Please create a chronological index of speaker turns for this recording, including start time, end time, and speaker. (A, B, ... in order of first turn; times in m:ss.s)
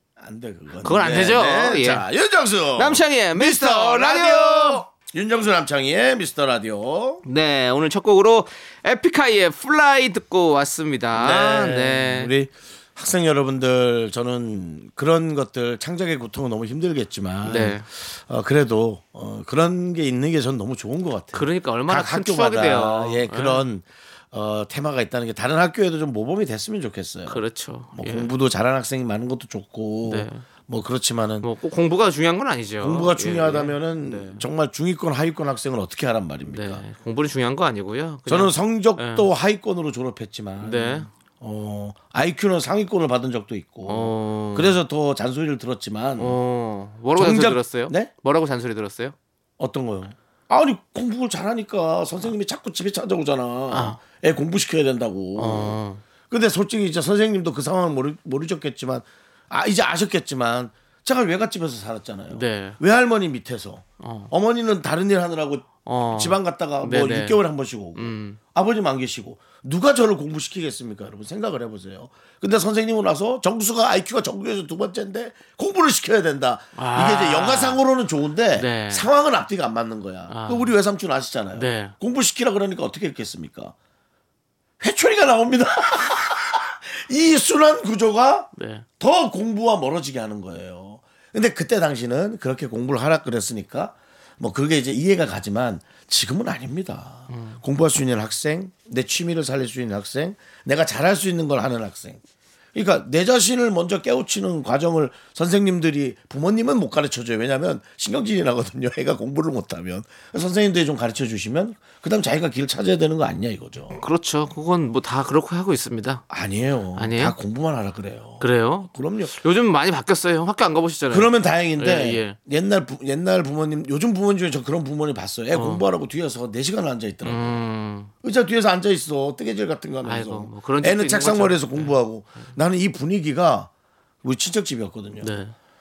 0:00.2-0:07.2 A
0:00.8-0:02.1 B
0:02.8-0:04.8 B
0:07.2-0:12.3 B
0:11.1-0:27.4 A
0:17.4-0:17.9 B
0:21.3-0:23.6 B
0:27.3-0:28.3 B
0:27.9-0:31.5 A
0:30.1-0:30.4 B
0:31.4-0:34.5 B
0:32.8-0:36.8 A
0:36.5-0:39.3 B
0:38.3-0:46.4 A
0:40.6-0:41.1 B
0:43.9-0:44.8 B
0:46.2-0:49.2 B
0:47.2-0:48.1 A
0:49.6-0:55.8 A
0:53.7-0:54.0 B
0:55.4-0:56.0 B
0:56.3-1:23.8 A
1:02.3-1:02.8 B
1:04.0-1:04.3 B
1:05.8-1:07.4 B
1:08.0-1:08.4 B
1:16.8-1:17.8 B
1:18.6-1:19.1 B
1:20.3-1:20.7 B
1:21.6-1:22.0 B
1:24.8-1:42.2 A
1:28.6-1:28.8 B
1:37.3-1:37.6 B
1:42.8-1:54.0 A
1:53.9-1:56.2 B
1:56.3-1:59.4 A
1:57.0-1:57.4 B
1:58.4-2:02.4 B
2:01.1-2:07.6 A
2:05.5-2:05.8 B
2:07.2-2:08.1 B
2:08.2-2:13.7 A
2:10.0-2:12.5 B
2:14.2-2:15.3 A
2:15.2-2:15.6 B